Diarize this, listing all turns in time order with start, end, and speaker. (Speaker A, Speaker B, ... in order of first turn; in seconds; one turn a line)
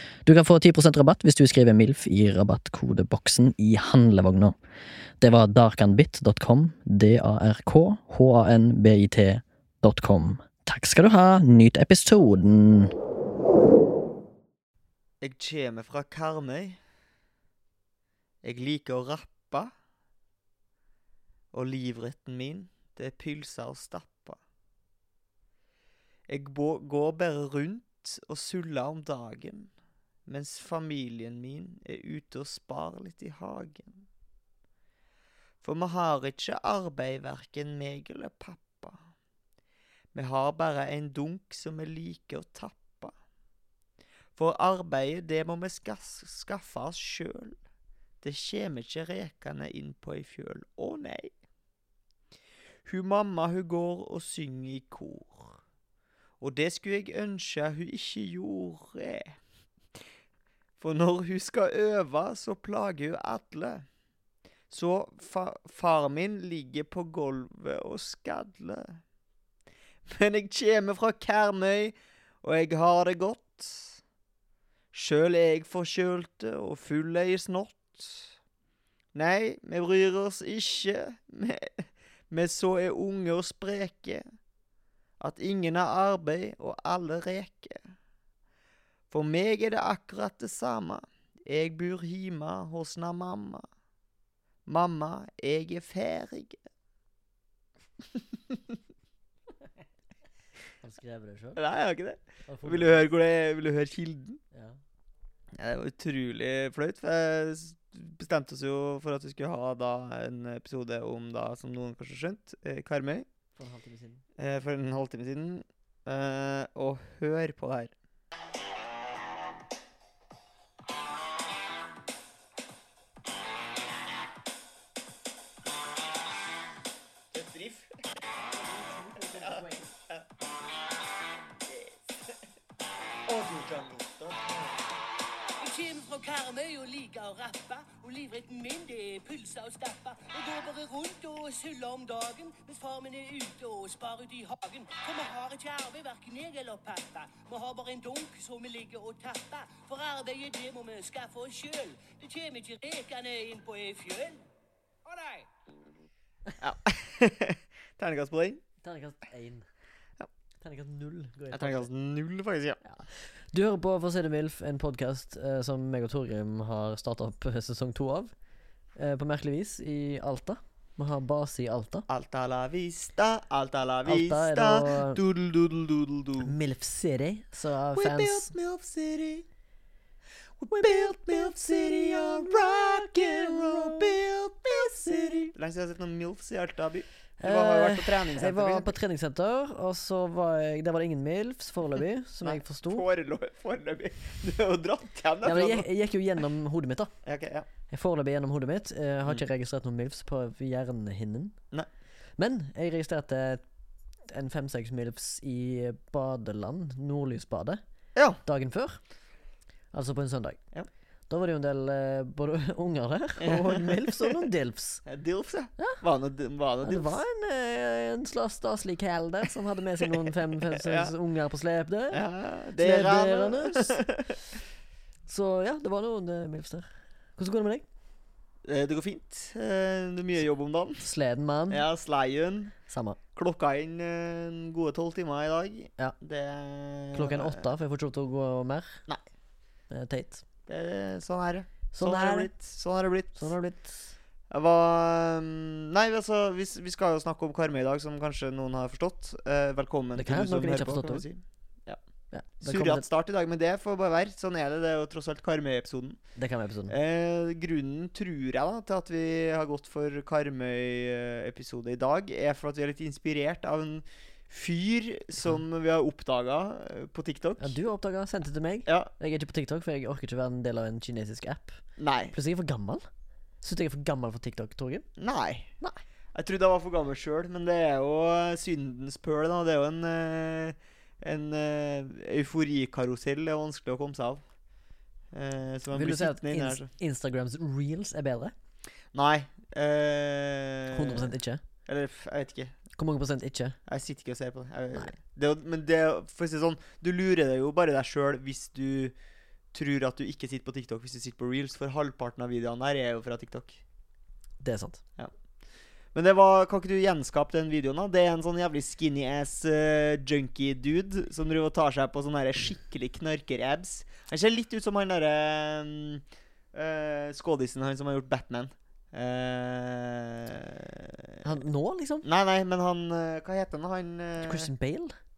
Speaker A: 0.2-4.5
Speaker A: 5.2-12.9
Speaker B: 15.2-16.8
Speaker B: 18.4-19.7
Speaker B: 21.5-24.4
Speaker B: 26.3-29.7
Speaker B: 30.2-34.0
Speaker B: 35.6-39.0
Speaker B: 40.1-43.1
Speaker B: 44.3-47.6
Speaker B: 48.2-51.4
Speaker B: 52.8-55.6
Speaker B: 56.4-59.4
Speaker B: 60.8-63.9
Speaker B: 64.7-69.0
Speaker B: 70.0-74.0
Speaker B: 74.9-78.3
Speaker B: 79.1-84.2
Speaker B: 85.2-87.8
Speaker B: 89.1-93.6
Speaker B: 94.7-96.6
Speaker A: 100.8-101.6
Speaker B: 101.5-104.4
Speaker A: 102.5-103.0
Speaker A: 104.5-104.8
Speaker B: 105.6-113.3
Speaker A: 113.6-114.2
Speaker B: 114.4-117.9
Speaker B: 127.3-128.0
Speaker A: 128.4-129.9
Speaker B: 129.2-130.2
Speaker B: 131.7-132.2
Speaker B: 133.2-135.0
Speaker C: 135.6-154.4
Speaker C: 155.1-155.5
Speaker B: 156.6-158.6
Speaker A: 158.8-159.7
Speaker A: 160.6-161.9
Speaker B: 161.5-162.8
Speaker A: 162.8-168.3
Speaker A: 169.0-172.1
Speaker B: 172.1-176.5
Speaker A: 174.0-175.2
Speaker A: 176.4-178.5
Speaker B: 177.9-179.4
Speaker B: 180.6-189.0
Speaker A: 180.8-181.2
Speaker A: 183.4-183.8
Speaker A: 187.4-193.1
Speaker B: 192.4-195.8
Speaker A: 195.4-197.1
Speaker B: 197.2-197.7
Speaker A: 197.9-201.6
Speaker A: 202.4-203.6
Speaker A: 204.3-207.8
Speaker B: 208.1-208.4
Speaker A: 208.4-209.0
Speaker A: 209.9-210.6
Speaker A: 211.3-215.0
Speaker B: 213.4-214.5
Speaker B: 215.1-217.2
Speaker A: 216.8-222.2
Speaker B: 220.0-221.1
Speaker B: 222.1-224.6
Speaker A: 222.8-224.0
Speaker A: 225.3-227.8
Speaker B: 228.6-231.1
Speaker A: 231.0-231.8
Speaker B: 231.7-232.7
Speaker A: 232.9-233.2
Speaker B: 233.3-237.7
Speaker A: 237.1-239.0
Speaker A: 239.9-240.4
Speaker B: 240.7-243.5
Speaker A: 241.9-242.5
Speaker A: 243.4-244.1
Speaker B: 244.5-252.0
Speaker A: 250.1-251.2
Speaker A: 252.3-253.1
Speaker B: 252.6-256.2
Speaker A: 256.4-256.9
Speaker B: 256.9-267.8
Speaker A: 267.6-271.8
Speaker B: 272.0-272.3
Speaker A: 272.3-273.0
Speaker A: 273.6-275.1
Speaker B: 275.2-275.7
Speaker B: 276.3-284.4
Speaker B: 285.3-286.9
Speaker A: 285.9-288.5
Speaker B: 289.1-291.3
Speaker A: 290.9-291.6
Speaker B: 291.9-292.7
Speaker A: 293.0-293.8
Speaker B: 293.9-299.1
Speaker B: 299.7-303.8
Speaker A: 304.6-305.0
Speaker B: 306.1-321.3
Speaker A: 321.4-322.2
Speaker B: 322.2-324.7
Speaker A: 324.4-325.1